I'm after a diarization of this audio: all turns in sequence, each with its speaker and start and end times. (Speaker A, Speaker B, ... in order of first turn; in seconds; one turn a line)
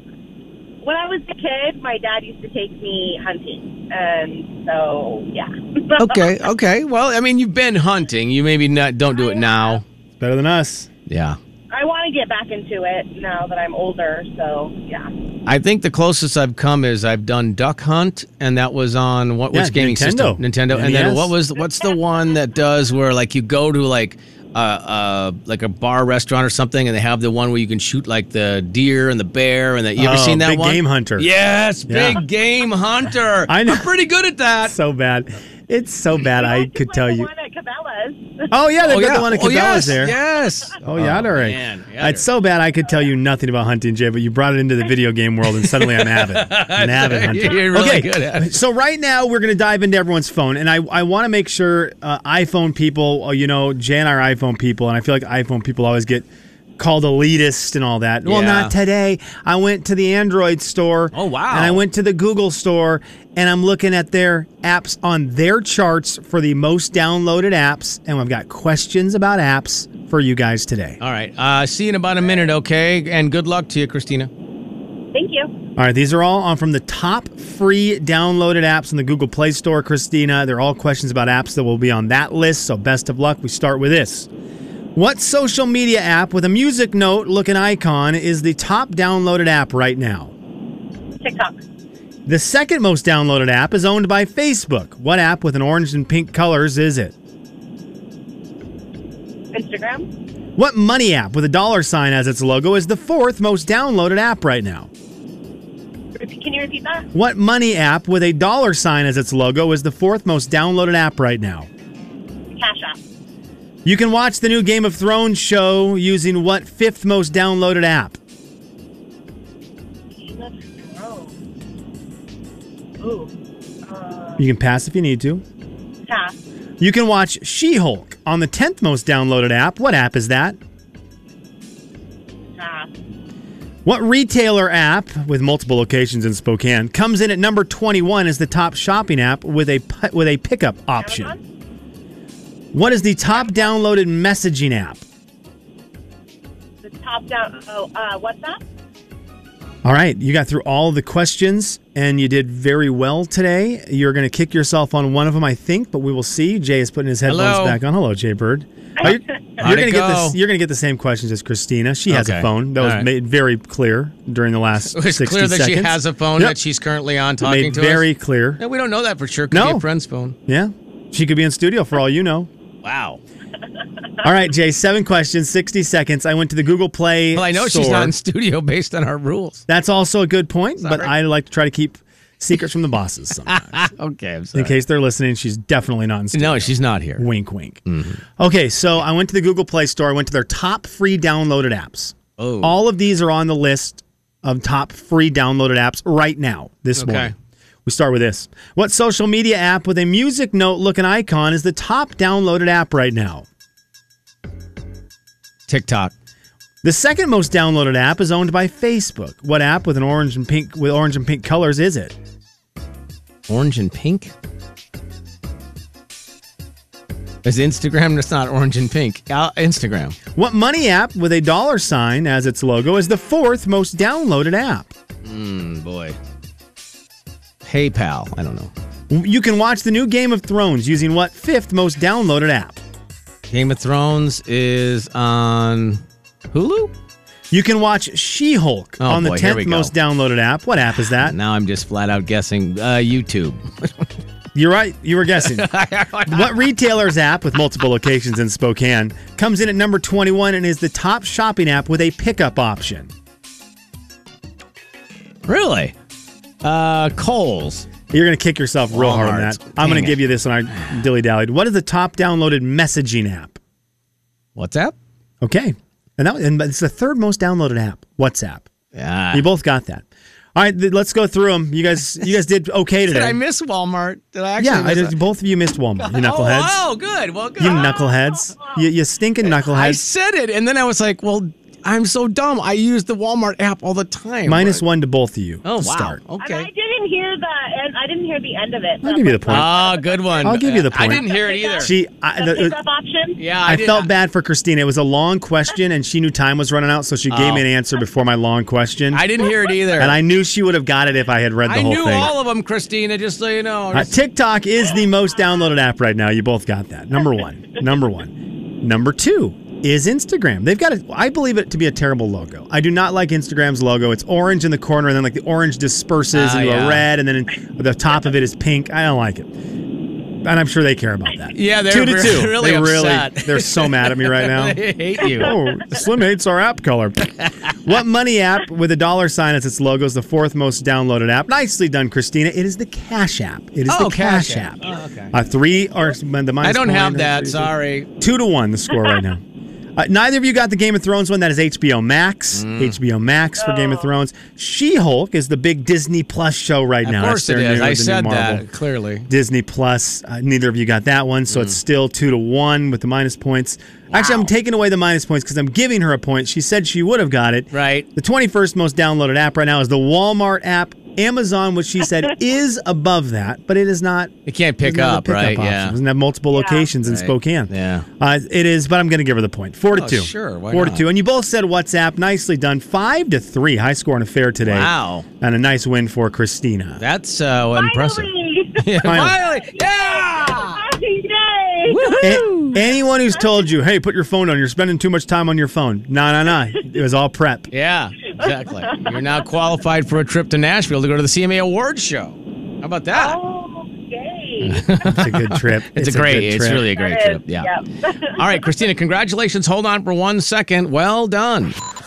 Speaker A: 0.8-6.3
Speaker B: 6.0-9.8
Speaker A: 9.2-9.8
Speaker C: 10.2-10.9
Speaker B: 11.1-11.4
Speaker A: 11.7-15.1
Speaker B: 15.5-34.7
Speaker C: 19.5-21.3
Speaker C: 30.0-31.3
Speaker C: 31.9-32.2
Speaker C: 33.5-33.9
Speaker C: 34.6-37.3
Speaker A: 36.3-38.5
Speaker C: 38.5-40.2
Speaker B: 38.8-42.2
Speaker C: 40.8-56.3
Speaker B: 45.6-48.5
Speaker C: 56.8-71.0
Speaker B: 58.2-58.7
Speaker B: 61.1-61.8
Speaker B: 71.0-74.3
Speaker A: 75.1-75.5
Speaker C: 75.8-84.3
Speaker C: 85.0-90.3
Speaker A: 91.2-91.6
Speaker C: 92.3-97.2
Speaker A: 99.5-100.1
Speaker C: 100.6-104.9
Speaker A: 106.2-107.1
Speaker C: 107.1-111.7
Speaker A: 112.5-113.0
Speaker C: 113.8-118.2
Speaker A: 120.1-121.3
Speaker A: 123.0-123.3
Speaker A: 123.9-124.4
Speaker C: 124.4-125.4
Speaker A: 126.1-126.5
Speaker C: 126.8-130.6
Speaker A: 132.6-132.9
Speaker C: 133.8-141.4
Speaker A: 141.0-141.4
Speaker C: 142.7-145.0
Speaker A: 146.8-148.6
Speaker C: 149.8-166.6
Speaker B: 157.3-157.8
Speaker B: 159.6-160.4
Speaker B: 162.1-163.1
Speaker B: 164.9-170.4
Speaker C: 167.4-168.6
Speaker C: 169.5-169.9
Speaker C: 170.5-172.5
Speaker B: 172.8-173.2
Speaker C: 174.2-178.1
Speaker B: 177.3-179.6
Speaker C: 179.7-183.9
Speaker B: 180.8-181.1
Speaker B: 183.5-184.8
Speaker C: 184.5-197.3
Speaker B: 186.3-187.3
Speaker B: 187.9-188.2
Speaker B: 192.4-192.8
Speaker B: 197.0-197.3
Speaker C: 197.8-203.5
Speaker B: 205.7-206.1
Speaker C: 206.8-212.2
Speaker B: 213.5-214.3
Speaker B: 217.4-220.2
Speaker C: 220.3-224.9
Speaker B: 225.2-226.2
Speaker B: 227.6-228.7
Speaker C: 229.1-232.8
Speaker B: 233.5-236.9
Speaker C: 237.5-241.3
Speaker B: 239.0-239.9
Speaker B: 241.2-244.1
Speaker C: 244.5-245.7
Speaker B: 245.4-246.6
Speaker C: 246.3-253.1
Speaker B: 255.5-255.9
Speaker B: 256.6-257.9
Speaker C: 258.1-263.6
Speaker B: 258.9-260.2
Speaker B: 264.6-264.9
Speaker C: 265.4-268.7
Speaker B: 268.9-269.5
Speaker C: 269.3-273.4
Speaker B: 273.1-275.1
Speaker C: 274.6-276.8
Speaker B: 276.0-277.9
Speaker C: 277.6-280.0
Speaker A: 277.7-278.9
Speaker B: 279.6-284.8
Speaker C: 284.5-286.2
Speaker B: 285.6-286.7
Speaker A: 286.4-290.5
Speaker C: 289.0-289.7
Speaker B: 289.5-291.9
Speaker C: 290.4-292.8
Speaker A: 291.1-293.4
Speaker B: 293.4-294.1
Speaker C: 293.6-299.4
Speaker B: 297.3-297.6
Speaker B: 299.1-300.2
Speaker C: 300.0-302.3
Speaker B: 301.6-304.1
Speaker C: 303.9-319.5
Speaker B: 316.3-317.1
Speaker C: 320.4-339.4
Speaker B: 321.6-325.6
Speaker B: 327.4-327.8
Speaker B: 333.9-335.4
Speaker B: 336.6-338.1
Speaker C: 340.0-348.6
Speaker B: 342.5-343.0
Speaker A: 343.6-344.1
Speaker B: 347.1-349.3
Speaker C: 349.3-377.0
Speaker B: 351.5-351.8
Speaker B: 354.1-354.5
Speaker B: 357.7-358.1
Speaker B: 364.5-366.0
Speaker A: 366.5-366.9
Speaker B: 367.1-368.1
Speaker B: 369.9-371.1
Speaker B: 374.6-375.3
Speaker B: 377.0-380.9
Speaker A: 377.8-382.9
Speaker C: 379.0-379.4
Speaker B: 381.9-382.8
Speaker C: 382.2-387.7
Speaker B: 387.7-393.4
Speaker A: 388.4-389.4
Speaker A: 393.1-394.9
Speaker B: 394.6-397.7
Speaker C: 395.0-396.9
Speaker A: 397.0-398.4
Speaker B: 398.3-401.8